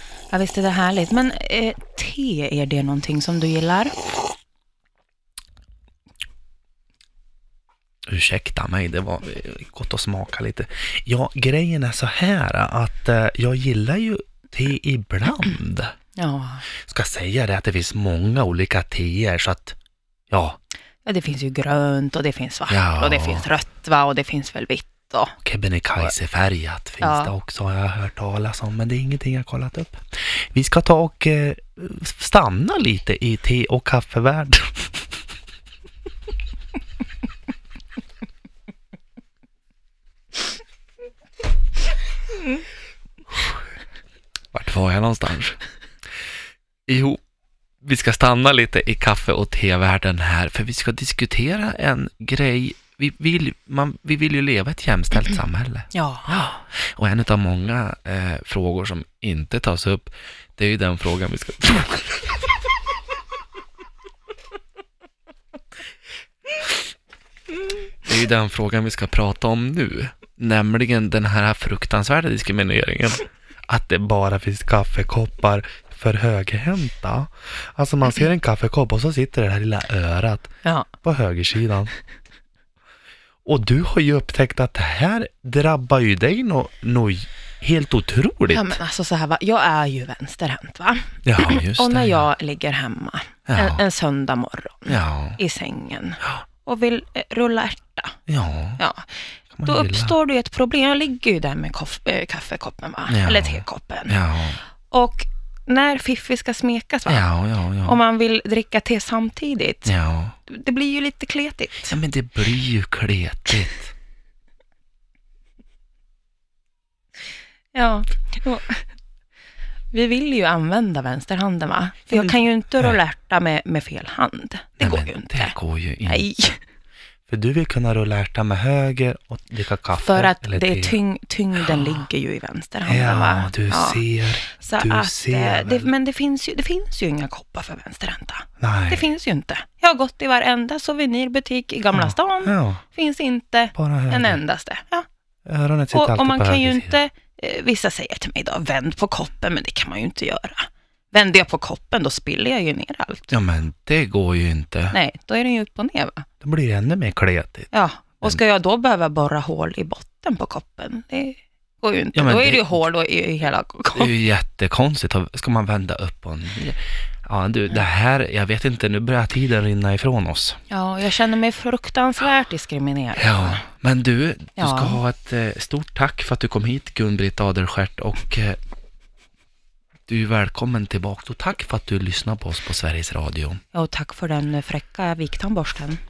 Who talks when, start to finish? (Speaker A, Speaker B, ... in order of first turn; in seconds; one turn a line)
Speaker A: 0.3-3.9
Speaker B: 8.1-15.9
Speaker A: 16.2-16.6
Speaker B: 16.8-19.8
Speaker B: 20.3-20.6
Speaker A: 21.0-25.3
Speaker B: 22.7-23.5
Speaker B: 25.4-30.0
Speaker A: 27.0-27.3
Speaker B: 30.5-34.9
Speaker B: 44.5-45.6
Speaker B: 46.9-47.2
Speaker B: 47.8-62.1
Speaker A: 55.9-56.5
Speaker B: 68.0-81.9
Speaker A: 80.6-80.9
Speaker B: 83.4-88.8
Speaker A: 88.5-98.2
Speaker B: 91.2-92.3
Speaker B: 93.5-93.8
Speaker B: 94.9-95.4
Speaker B: 98.3-98.8
Speaker A: 98.8-104.1
Speaker B: 99.5-100.1
Speaker B: 103.1-104.6
Speaker A: 104.9-107.3
Speaker B: 107.0-108.0
Speaker A: 107.8-109.9
Speaker B: 109.8-110.3
Speaker A: 110.5-111.9
Speaker B: 111.9-113.9
Speaker A: 117.7-118.8
Speaker A: 119.9-126.6
Speaker B: 122.1-123.0
Speaker B: 124.8-126.3
Speaker B: 127.3-131.0
Speaker A: 130.0-145.1
Speaker B: 131.6-131.9
Speaker B: 132.8-135.9
Speaker B: 138.6-139.1
Speaker B: 141.9-142.8
Speaker B: 143.7-144.4
Speaker B: 145.4-146.9
Speaker A: 145.9-153.3
Speaker B: 153.3-155.0
Speaker A: 154.9-156.2
Speaker B: 156.4-157.7
Speaker A: 157.7-164.1
Speaker B: 162.1-162.8
Speaker B: 163.9-170.6
Speaker A: 170.7-173.6
Speaker B: 173.2-178.6
Speaker A: 174.6-175.0
Speaker B: 180.1-183.6
Speaker A: 183.7-186.0